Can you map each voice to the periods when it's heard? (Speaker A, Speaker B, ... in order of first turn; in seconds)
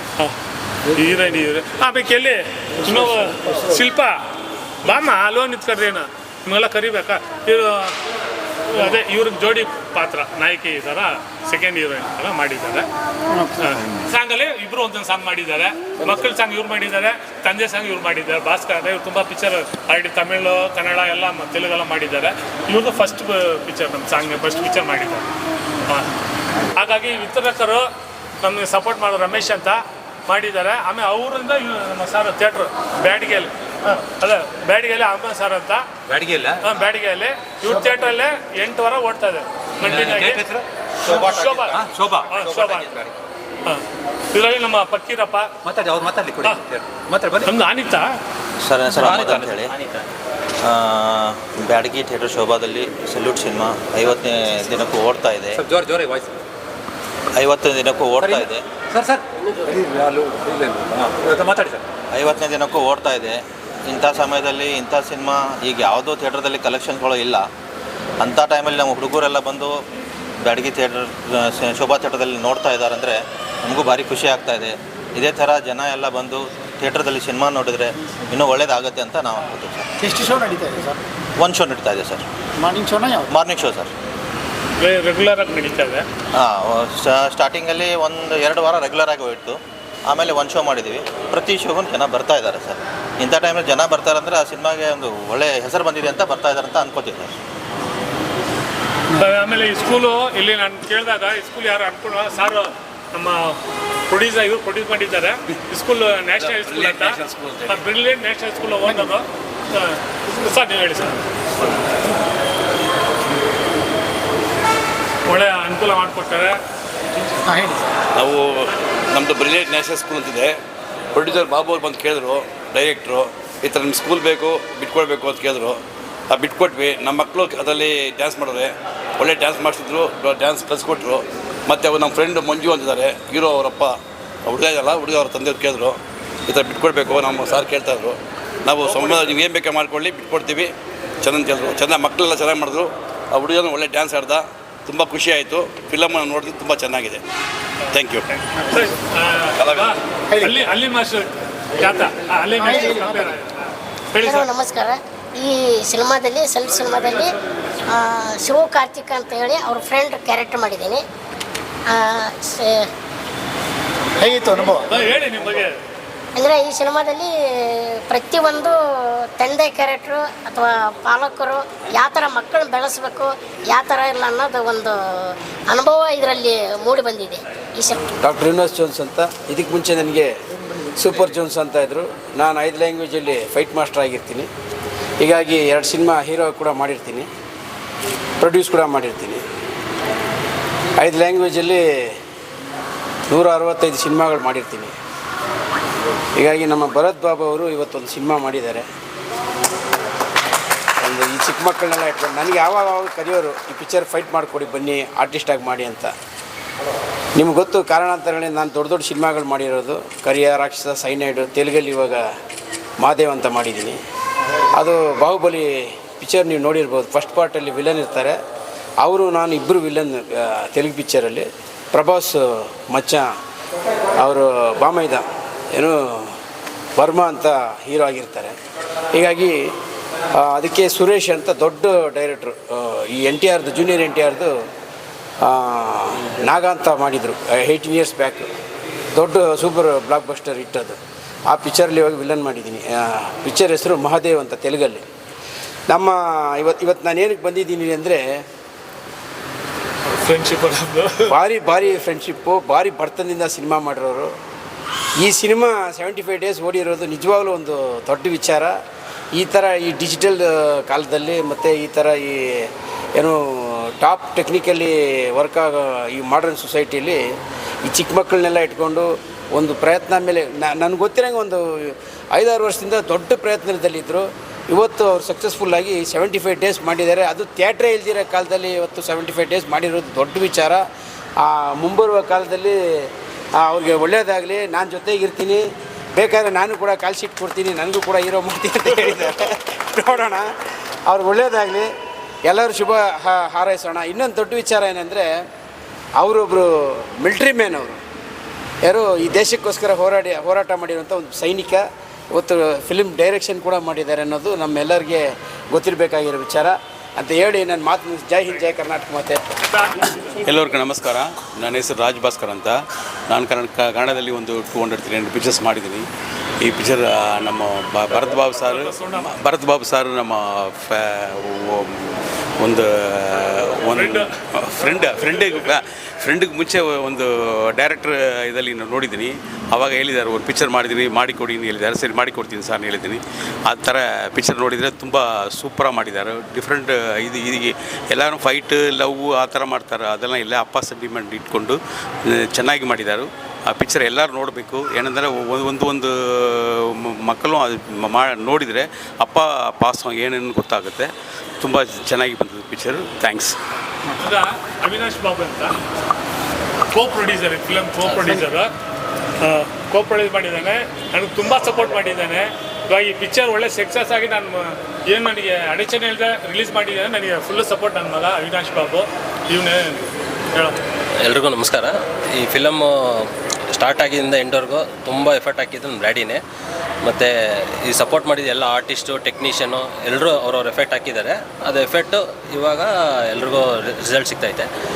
Speaker A: 0.9-4.2, 4.8-8.0, 8.7-12.9, 13.6-25.3, 26.7-27.9, 28.4-35.9, 36.6-40.4, 41.0-42.9, 43.6-45.5, 47.4-48.1, 84.8-86.0, 99.2-111.2, 115.3-116.6, 138.8-139.3, 148.3-153.5, 154.1-154.5, 164.9-165.8, 250.1-251.3, 309.7-310.4, 318.3-319.3, 323.9-325.7, 354.2-355.8, 356.9-358.7, 359.4-370.8
Speaker B: 36.1-36.6, 39.8-43.1, 45.6-47.5, 48.9-50.0, 55.5-56.4, 58.2-61.8
Speaker C: 48.6-49.7, 50.6-55.6, 57.3-58.6, 62.1-67.5, 68.2-69.8, 70.4-79.9, 81.4-82.2, 83.3-83.9, 86.3-97.3
Speaker D: 80.0-81.0, 82.6-83.3, 108.8-109.1, 117.5-117.8, 150.3-150.6, 152.6-153.3, 164.2-164.9
Speaker E: 106.4-107.8, 118.2-120.5, 121.1-140.7, 141.2-147.2, 147.9-148.2, 149.6-149.9
Speaker F: 154.2-157.3, 157.9-161.0, 161.9-162.9, 166.3-168.8, 169.4-175.0, 175.7-178.0
Speaker G: 178.2-180.3, 180.9-184.5, 185.2-187.3, 188.4-189.4, 191.0-192.2, 193.3-194.9, 196.4-198.9, 201.0-206.1, 207.3-212.3, 213.0-214.0, 214.8-218.4, 219.0-223.3, 224.2-226.4, 227.0-228.6, 229.1-229.7, 230.3-234.6, 235.4-238.5, 239.1-245.0, 245.9-248.4, 251.3-254.3, 255.2-258.8, 259.3-267.2, 267.8-280.8, 281.4-290.5, 291.1-291.9, 292.4-295.4, 296.2-298.0, 298.8-309.4
Speaker H: 310.4-312.8, 313.3-316.1, 316.6-353.6
Speaker I: 371.2-376.4, 377.0-384.7